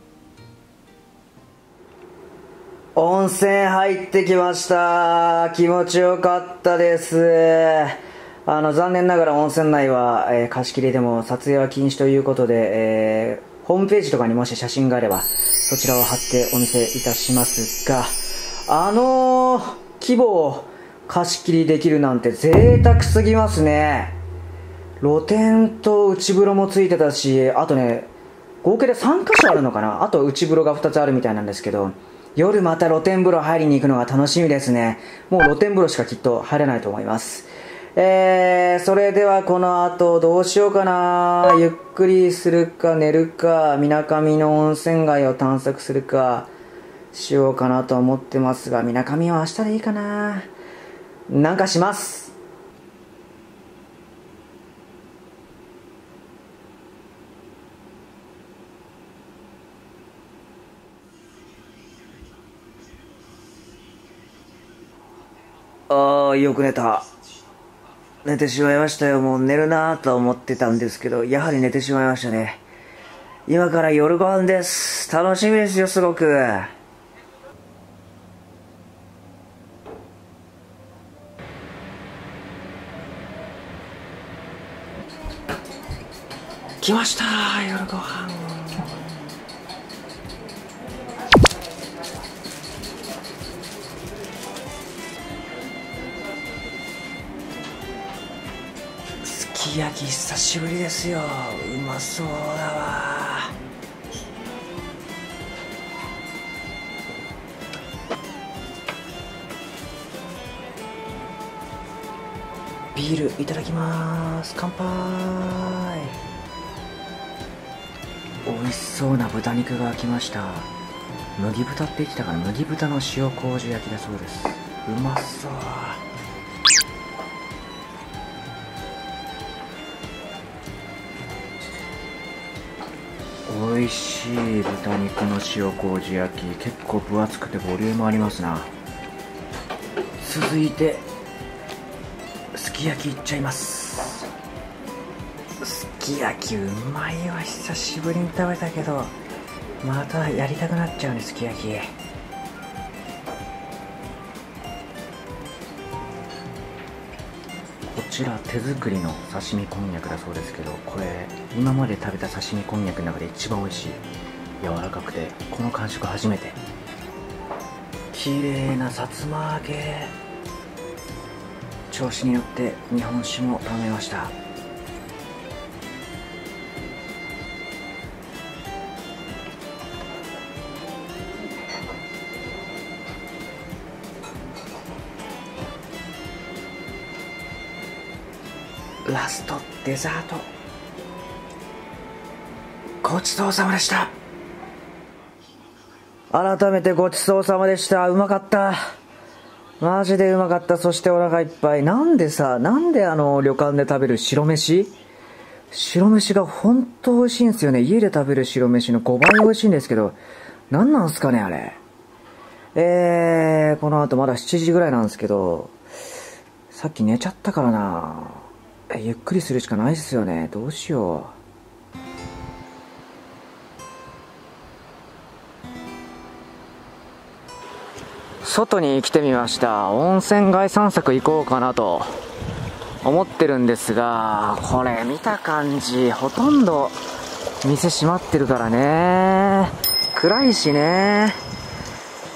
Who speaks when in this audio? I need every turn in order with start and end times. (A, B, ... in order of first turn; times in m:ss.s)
0:02.9-0:24.2 A
0:25.0-0:28.1 A
0:28.6-0:46.5 A
0:47.1-0:50.5 A
0:51.3-0:52.3 A
1:05.9-1:07.1 A
1:08.2-1:12.6 A
1:13.5-1:16.7 A
1:26.8-1:29.0 A
1:39.2-1:43.5 A
1:52.9-1:56.1 A
1:58.4-2:00.7 A
2:01.4-2:06.0 A
2:13.5-2:18.7 A
2:20.2-2:21.0 A
2:22.5-2:24.3 A
2:25.6-2:29.1 A
2:29.8-2:31.9 A
2:37.9-2:44.0 A
2:44.6-2:46.6 A
2:48.1-2:50.1 A
2:51.9-2:54.3 A
3:09.0-3:10.5 A
3:13.0-3:14.1 A
3:16.3-3:18.8 A
3:19.8-3:24.9 A
3:25.7-3:30.2 A
3:30.7-3:31.8 A
3:32.7-3:35.8 A
3:36.7-3:41.4 A
3:48.4-3:52.1 A
3:53.0-3:57.0 A
3:57.6-4:01.4 A